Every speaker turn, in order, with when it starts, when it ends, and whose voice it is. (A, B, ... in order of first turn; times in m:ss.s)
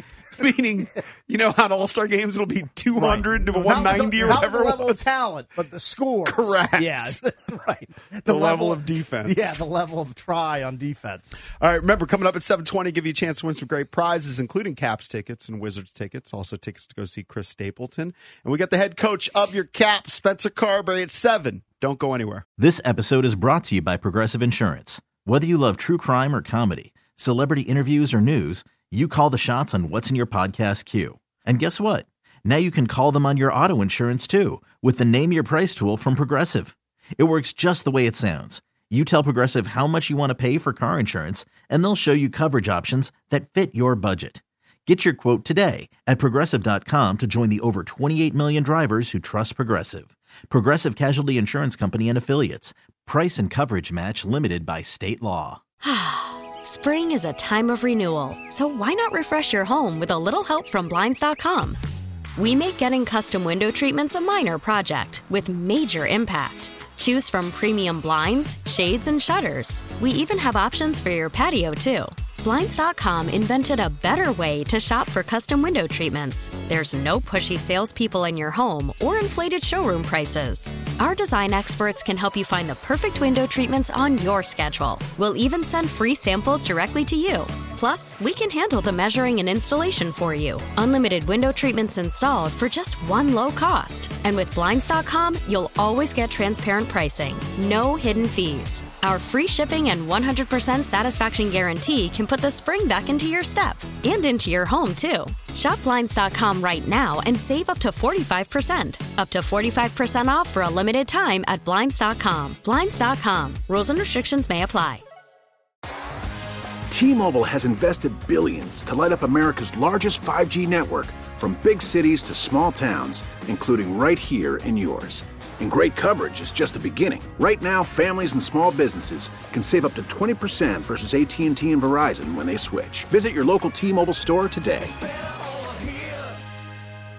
0:00.4-0:05.1 A
0:03.0-0:08.8 B
0:06.2-0:07.2 A
0:08.3-0:09.6 A
0:09.3-0:11.5 B
0:11.6-0:22.4 A
0:22.6-0:55.6 C
0:55.8-1:01.8 D
1:02.4-1:55.0 D
1:56.9-2:14.9 E